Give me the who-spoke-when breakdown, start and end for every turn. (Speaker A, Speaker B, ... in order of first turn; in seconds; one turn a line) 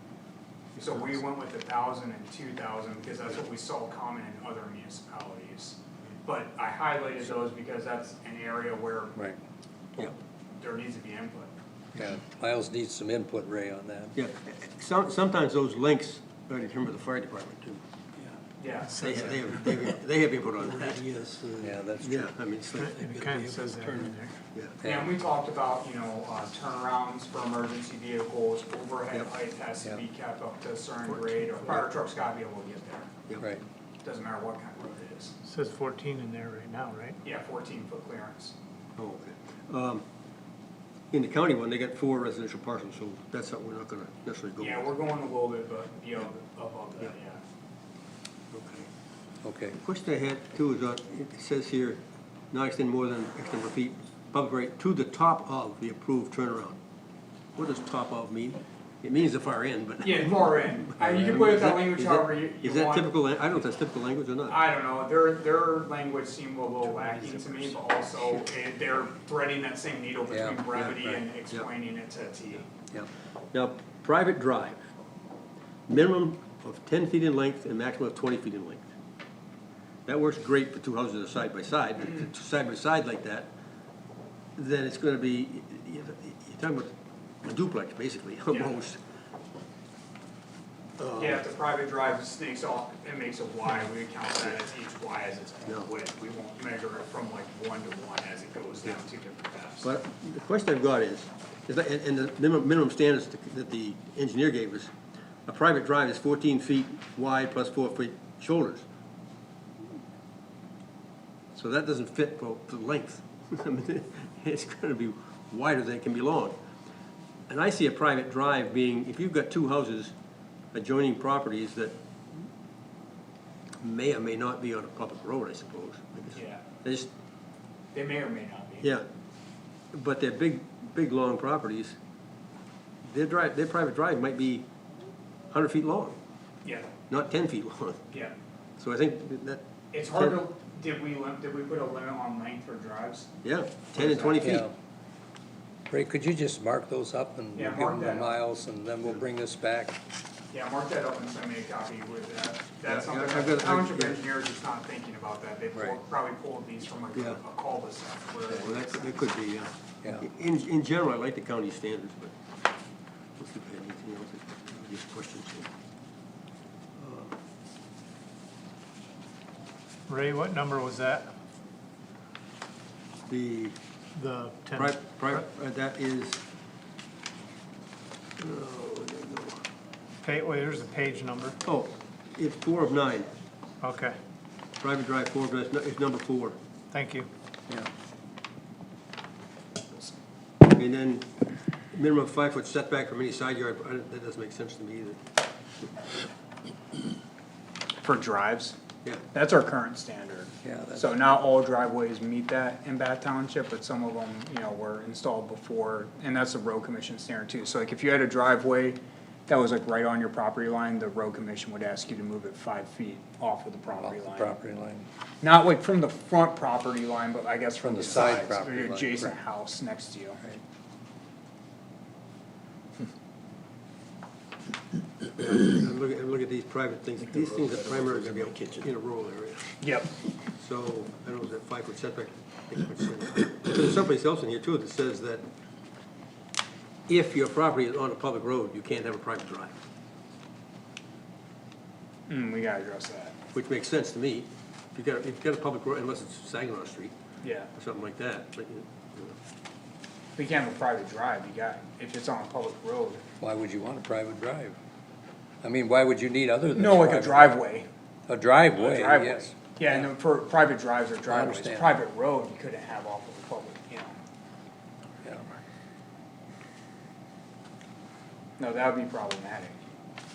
Speaker A: 0.7-1.2
Speaker B: 0.8-9.2
Speaker B: 10.0-11.5
Speaker C: 11.9-14.1
Speaker A: 14.1-17.8
Speaker B: 18.6-19.1
Speaker A: 18.9-23.3
Speaker D: 18.9-19.8
Speaker C: 21.6-22.3
Speaker D: 22.8-24.3
Speaker C: 23.2-24.1
Speaker A: 23.9-24.8
Speaker B: 24.8-33.1
Speaker C: 24.8-25.1
Speaker A: 31.1-31.9
Speaker B: 34.0-35.3
Speaker D: 35.4-37.2
Speaker B: 37.2-38.5
Speaker A: 39.0-40.0
Speaker A: 41.1-44.9
Speaker B: 44.6-47.4
Speaker A: 48.5-48.9
Speaker C: 49.4-49.8
Speaker A: 49.7-52.0
Speaker A: 52.5-56.8
Speaker A: 57.5-64.6
Speaker B: 60.0-63.1
Speaker B: 64.5-72.7
Speaker A: 67.2-67.6
Speaker C: 70.3-70.6
Speaker A: 70.7-71.7
Speaker A: 73.5-74.9
Speaker A: 75.9-78.9
Speaker A: 80.0-83.5
Speaker A: 84.5-89.0
Speaker B: 88.5-88.8
Speaker A: 91.0-91.5
Speaker B: 91.2-99.9
Speaker A: 99.8-104.9
Speaker A: 105.5-108.8
Speaker A: 111.5-116.5
Speaker A: 117.5-120.1
Speaker A: 120.7-121.9
Speaker A: 123.8-127.1
Speaker B: 126.3-126.6
Speaker B: 127.9-128.9
Speaker A: 128.8-129.1
Speaker A: 129.9-132.0
Speaker A: 133.0-134.7
Speaker A: 135.5-136.2
Speaker B: 136.6-136.9
Speaker A: 137.1-138.0
Speaker A: 138.8-140.4
Speaker B: 139.9-143.3
Speaker A: 143.4-144.7
Speaker B: 143.9-144.5
Speaker C: 144.4-144.7
Speaker C: 145.9-150.0
Speaker B: 147.6-148.4
Speaker B: 150.5-159.2
Speaker A: 152.8-154.2
Speaker A: 157.1-157.4
Speaker A: 158.5-162.3
Speaker A: 163.4-165.7
Speaker A: 166.9-167.4
Speaker D: 170.1-171.3
Speaker A: 173.3-173.8
Speaker D: 174.1-175.4
Speaker A: 174.7-176.4
Speaker A: 178.4-179.6
Speaker D: 180.2-181.6
Speaker A: 181.6-183.3
Speaker D: 183.8-184.2
Speaker A: 184.8-186.6
Speaker D: 186.9-187.3
Speaker B: 189.8-190.1
Speaker A: 190.7-191.3
Speaker A: 191.9-195.2
Speaker B: 198.0-198.8
Speaker B: 199.3-214.5
Speaker C: 200.6-201.1
Speaker C: 214.0-215.1
Speaker B: 215.4-220.4
Speaker C: 217.8-219.3
Speaker A: 225.3-229.8
Speaker B: 227.6-228.3
Speaker B: 229.8-230.1
Speaker A: 230.6-235.4
Speaker A: 237.1-239.8
Speaker B: 242.3-243.4
Speaker A: 243.5-247.1
Speaker B: 247.4-247.7
Speaker A: 247.7-249.4
Speaker B: 250.3-253.2
Speaker C: 253.4-254.8
Speaker C: 255.6-257.6
Speaker B: 256.7-257.9
Speaker C: 258.3-260.1
Speaker B: 258.8-264.2
Speaker C: 261.3-262.0
Speaker B: 268.6-269.8